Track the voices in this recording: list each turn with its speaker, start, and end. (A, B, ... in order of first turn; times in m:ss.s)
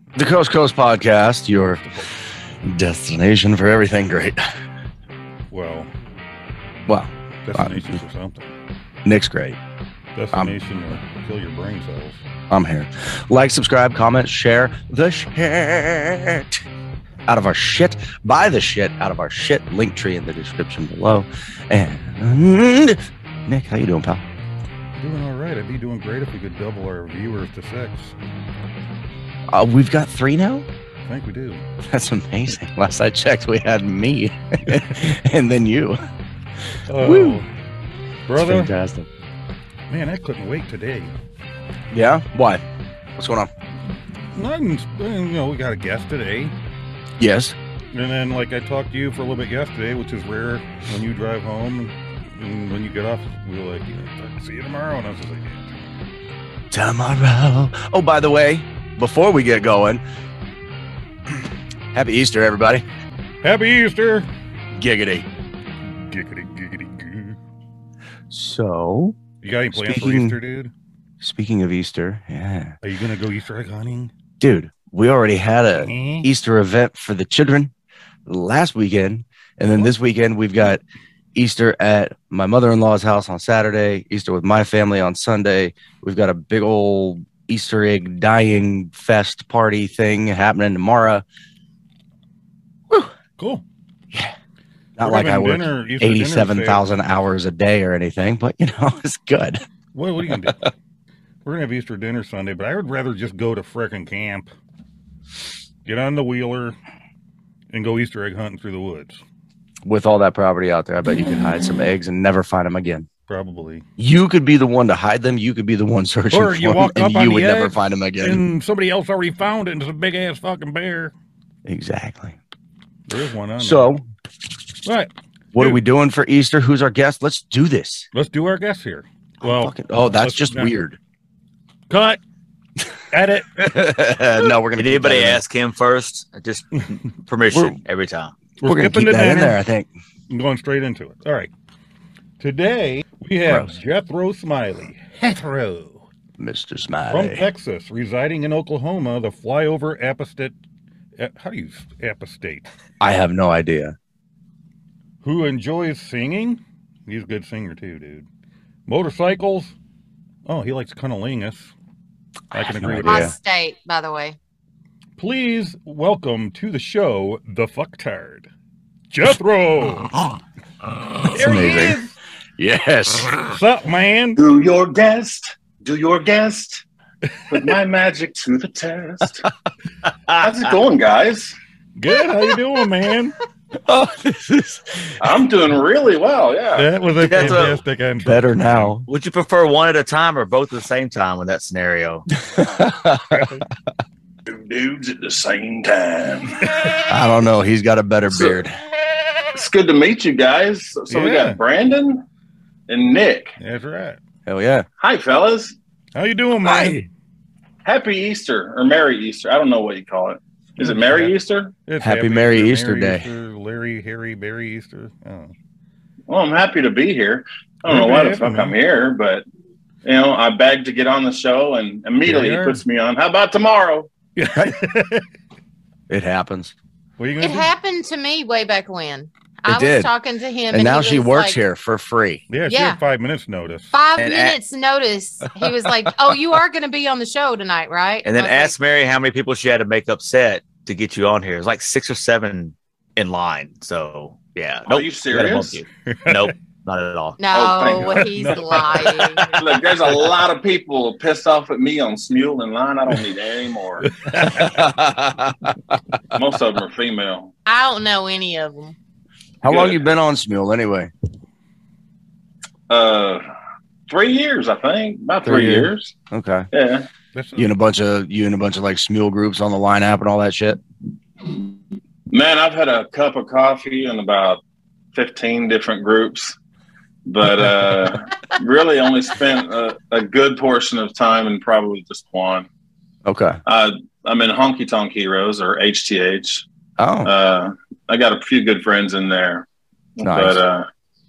0:00.2-0:01.8 A
0:01.7-0:02.1 B
0:02.6-0:04.4 A
0:05.5-0:05.9 B
0:06.9-0:08.0 A
0:07.4-0:08.5 B
0:09.0-0:09.6 A
0:10.2-0:12.2 B
0:12.5-0:16.6 A
0:17.3-0:24.2 A
0:25.0-0:28.2 B
0:29.5-0:30.7 A
0:31.0-0:31.6 B
0:31.9-0:36.0 A
0:34.7-0:35.0 B
0:36.9-0:37.5 B
0:37.0-0:37.4 A
0:38.3-0:38.7 B
0:38.4-0:39.1 A
0:39.9-0:41.1 B
0:41.9-0:42.6 A
0:43.2-0:43.5 A
0:44.3-0:46.5 B
0:47.2-0:47.6 A
0:47.9-0:55.9 B
0:56.7-1:00.0 A
1:01.9-1:02.8 A
1:03.4-1:04.3 B
1:04.7-1:05.3 A
1:05.9-1:07.4 B
1:08.3-1:09.2 A
1:09.4-1:10.7 B
1:09.7-1:10.4 A
1:11.2-1:12.8 A
1:12.8-1:14.1 B
1:14.4-1:17.7 A
1:15.8-1:16.3 B
1:18.3-1:20.8 A
1:21.4-1:31.2 A
1:33.4-1:33.6 B
1:35.0-1:39.6 A
1:35.0-1:36.8 B
1:39.9-1:40.7 B
1:41.4-1:44.5 B
1:45.8-1:46.8 B
1:47.7-1:49.2 B
1:49.8-1:53.1 A
1:53.3-1:53.8 B
1:54.0-1:58.4 A
1:56.3-2:01.1 B
2:01.7-2:02.4 A
2:03.1-2:04.0 B
2:03.6-2:04.0 A
2:04.8-2:05.8 B
2:05.5-2:08.1 A
2:08.1-2:10.9 B
2:09.4-2:11.0 A
2:11.9-2:12.2 B
2:13.1-2:13.7 B
2:13.6-2:15.4 A
2:14.8-2:18.4 C
2:17.5-2:17.8 A
2:18.6-2:19.6 B
2:18.6-2:19.9 A
2:20.3-2:21.5 B
2:22.4-2:26.0 B
2:23.5-2:23.8 A
2:26.4-2:27.5 A
2:27.1-2:30.6 B
2:31.2-2:32.7 B
2:33.0-2:34.0 A
2:35.2-2:38.3 B
2:38.9-2:39.8 B
2:40.5-2:41.7 B
2:42.5-2:43.3 B
2:42.6-2:43.3 A
2:43.0-2:44.4 D
2:45.2-2:48.5 B
2:49.1-2:50.2 B
2:51.2-2:52.1 B
2:51.3-2:52.0 A
2:52.6-2:53.5 A
2:53.5-2:54.4 B
2:54.4-2:56.8 E
2:57.5-2:59.5 E
3:00.4-3:01.6 E
3:02.0-3:03.4 B
3:03.9-3:05.2 A
3:05.2-3:06.9 E
3:06.8-3:09.0 B
3:07.2-3:07.8 C
3:08.2-3:09.1 A
3:09.1-3:12.3 C
3:12.5-3:13.6 A
3:13.3-3:13.6 B
3:14.5-3:16.6 E
3:16.6-3:17.0 B
3:17.1-3:18.7 A
3:18.3-3:18.6 E
3:19.5-3:22.2 E
3:21.1-3:21.6 B
3:22.9-3:23.6 E
3:23.6-3:24.2 B
3:24.5-3:24.9 A
3:25.0-3:25.8 E
3:26.2-3:27.1 B
3:26.6-3:27.0 A
3:27.8-3:31.7 E
3:30.8-3:35.5 B
3:32.0-3:33.3 A
3:36.3-3:39.4 E
3:37.9-3:38.8 B
3:40.0-3:44.1 E
3:42.2-3:42.8 B
3:44.4-3:45.2 B
3:46.1-3:46.7 A
3:47.2-3:47.7 B
3:47.4-3:51.6 D
3:49.7-3:50.1 A
3:50.7-3:52.4 A
3:52.5-3:53.9 B
3:52.7-3:53.0 D
3:53.9-3:58.8 D
3:54.2-3:54.6 C
3:58.2-4:07.4 C
4:04.9-4:05.8 E
4:06.1-4:06.5 B
4:07.4-4:09.5 D
4:07.5-4:08.3 E
4:08.0-4:09.6 B
4:09.5-4:14.1 E
4:14.1-4:14.7 B
4:14.5-4:15.8 A
4:16.3-4:17.5 E
4:17.7-4:19.0 D
4:19.6-4:21.1 A
4:19.7-4:20.0 E
4:22.9-4:23.4 E
4:24.1-4:26.1 E
4:25.4-4:26.7 A
4:26.7-4:27.1 E
4:27.4-4:27.7 B
4:27.6-4:30.8 A
4:32.3-4:34.6 E
4:35.1-4:36.6 E
4:37.3-4:42.7 E
4:43.2-4:43.6 A
4:43.7-4:46.6 E
4:47.0-4:47.3 A
4:47.2-4:50.9 E
4:50.2-4:50.6 A